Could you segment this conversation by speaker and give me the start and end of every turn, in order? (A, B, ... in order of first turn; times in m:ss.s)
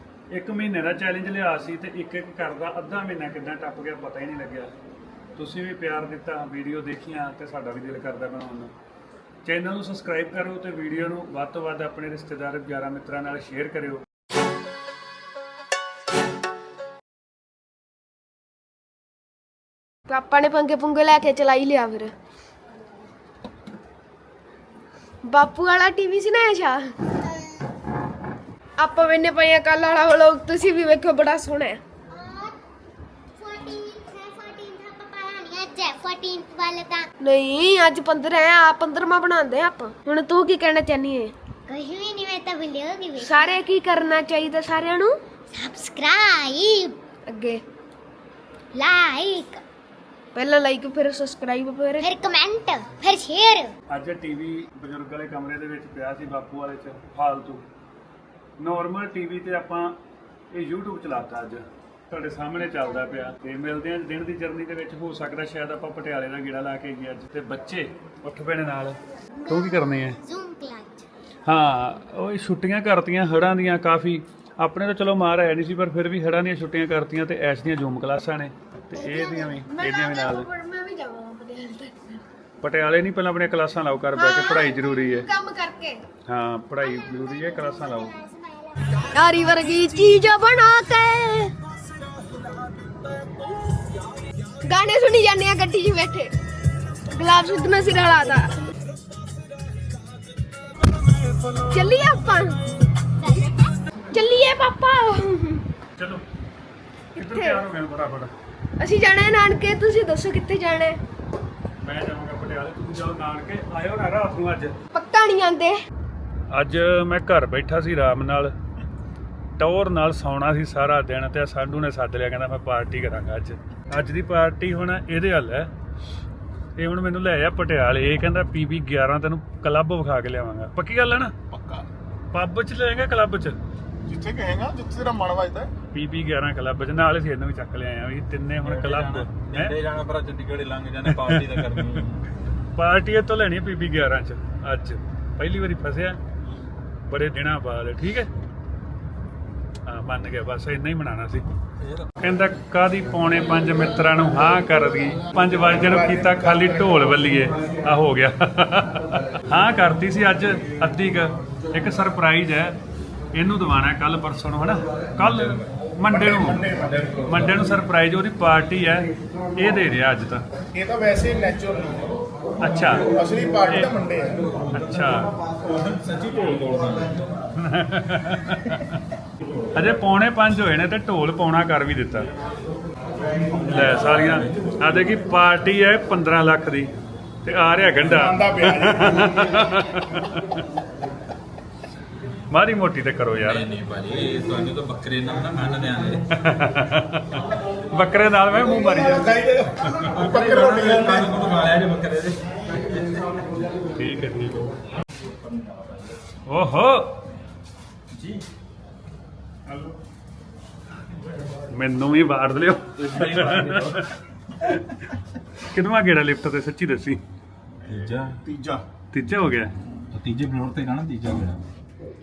0:00.3-0:04.7 A
0:05.4-0:08.7 A
0:09.4-0:14.0 A
0:20.1-0:22.1 B
0:25.3-0:26.8 B
0:28.8-0:31.8 B
0:32.1-0:32.5 C
0:33.4-0:37.1 C
0:37.3-0:41.3 B
0:41.7-0:43.6 C
0:43.3-0:45.1 B
0:45.5-0:47.0 C
0:47.3-0:47.6 B
0:48.8-0:49.6 C
0:50.4-0:52.1 B
0:52.0-0:53.7 C
0:53.9-0:57.6 A
0:58.6-1:00.0 A
1:00.5-1:10.2 A
1:09.5-1:11.0 C
1:11.5-1:20.5 A
1:19.0-1:22.2 B
1:22.6-1:25.3 A
1:24.2-1:26.0 B
1:26.3-1:28.2 A
1:29.1-1:31.5 B
1:34.6-1:36.3 B
1:37.1-1:38.5 B
1:41.7-1:42.6 B
1:44.1-1:45.6 B
1:46.0-1:46.2 A
1:47.2-1:48.3 A
1:47.2-1:47.6 B
1:48.8-1:50.9 B
1:51.8-1:54.8 A
1:55.0-1:55.7 B
1:56.5-1:58.5 A
1:59.6-2:05.7 A
2:06.8-2:11.3 A
2:11.5-2:11.9 D
2:12.3-2:13.6 A
2:14.0-2:15.7 D
2:15.9-2:19.8 A
2:18.6-2:22.2 E
2:21.1-2:22.0 A
2:22.8-2:26.2 A
2:27.1-2:28.3 A
2:29.8-2:31.4 A
2:31.8-2:32.1 E
2:32.2-2:42.8 A
2:35.6-2:37.2 D
2:43.3-2:46.6 A
2:45.2-2:45.6 E
2:46.1-2:47.1 D
2:47.2-2:50.4 A
2:50.7-2:52.1 D
2:52.6-2:53.1 A
2:53.0-2:54.4 D
2:54.7-2:55.3 A
2:55.6-2:57.2 E
2:57.6-2:59.0 A
2:59.8-3:02.3 A
3:03.6-3:06.9 A
3:03.9-3:04.5 E
3:07.4-3:10.6 A
3:08.0-3:09.7 D
3:12.5-3:13.7 A
3:13.4-3:16.3 E
3:16.4-3:19.3 A
3:19.0-3:21.4 D
3:20.1-3:23.2 E
3:24.0-3:24.7 A
3:26.5-3:27.1 A
3:31.7-3:34.0 A
3:33.0-3:34.0 E
3:34.7-3:35.0 A
3:35.7-3:37.2 A
3:37.9-3:38.4 E
3:38.5-3:38.8 D
3:39.1-3:39.7 A
3:40.1-3:41.6 E